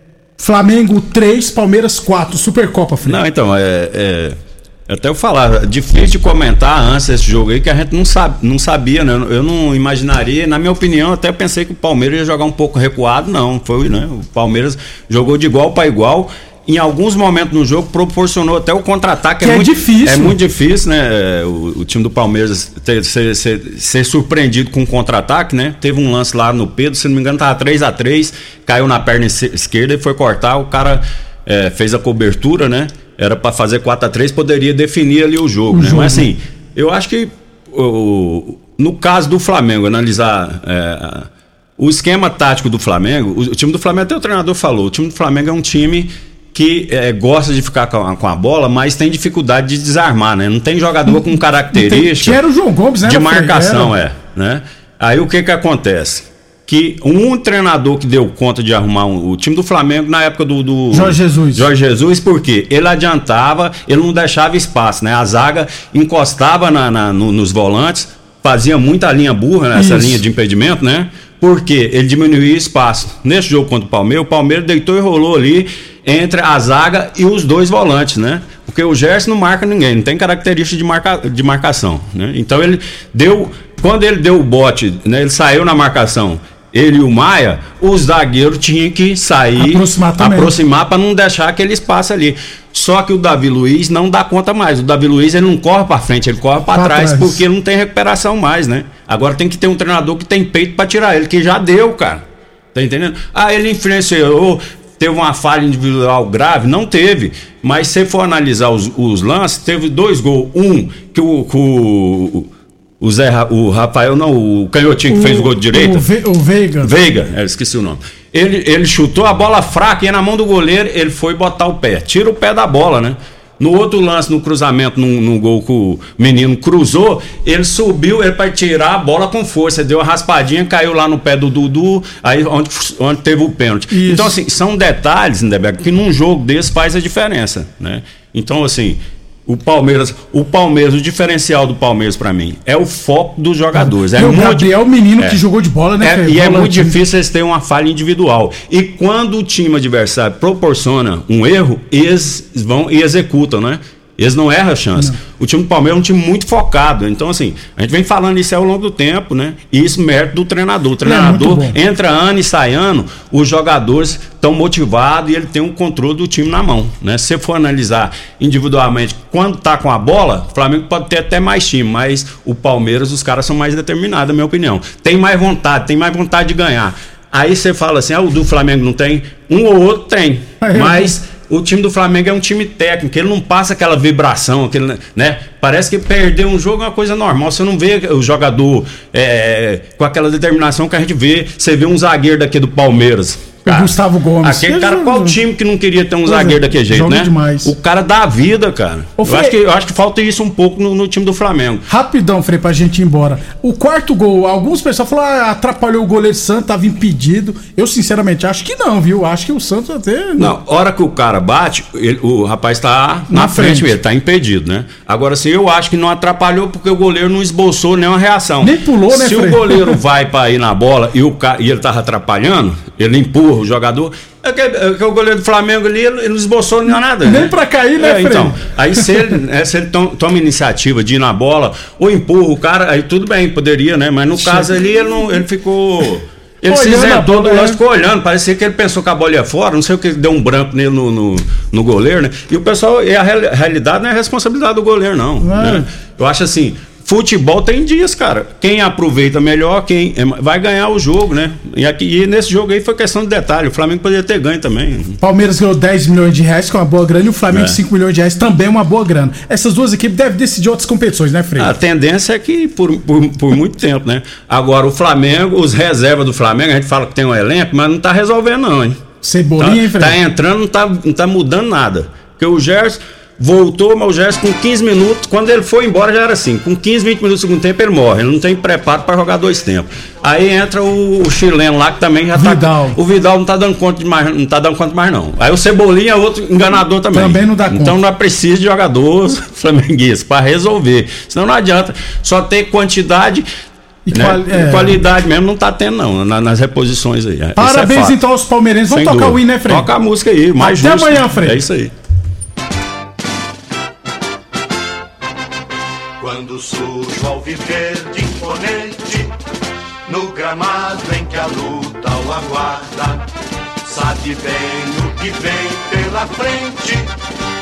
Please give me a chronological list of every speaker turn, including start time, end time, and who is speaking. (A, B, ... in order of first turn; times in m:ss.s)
0:00.4-0:03.2 A
0:03.0-0:52.4 B
0:19.4-0:20.4 A
0:35.7-0:36.3 A
0:51.1-0:53.9 A
0:53.0-1:42.2 B
1:00.9-1:01.7 A
1:09.8-1:10.2 A
1:29.6-1:30.6 A
1:36.7-1:37.4 A
1:42.7-1:52.5 B
1:53.0-1:56.1 B
1:55.1-1:56.9 A
1:56.8-2:25.4 B
2:13.9-2:14.4 A
2:23.8-2:27.0 A
2:26.0-3:21.8 B
2:41.0-2:41.8 A
3:00.6-3:01.2 A
3:13.6-3:15.4 A
3:16.3-3:17.7 A
3:19.2-3:19.6 A
3:21.9-3:30.5 A
3:30.4-4:15.2 B
3:33.3-3:33.9 A
3:38.6-3:40.0 A
3:47.2-3:49.2 A
3:54.4-3:55.3 A
3:56.7-3:57.8 A
4:05.4-4:05.9 A
4:15.2-4:21.7 A
4:17.5-4:17.8 B
4:21.6-4:29.0 B
4:29.2-4:30.2 A
4:29.6-4:53.5 B
4:42.4-4:43.0 A
4:47.1-4:48.0 A
4:54.1-4:55.0 A
4:54.1-4:58.2 B
4:57.6-4:59.9 A
4:58.9-5:01.9 B
5:00.6-5:01.6 A
5:06.2-5:09.3 C
5:10.1-5:13.2 C
5:13.8-5:17.1 C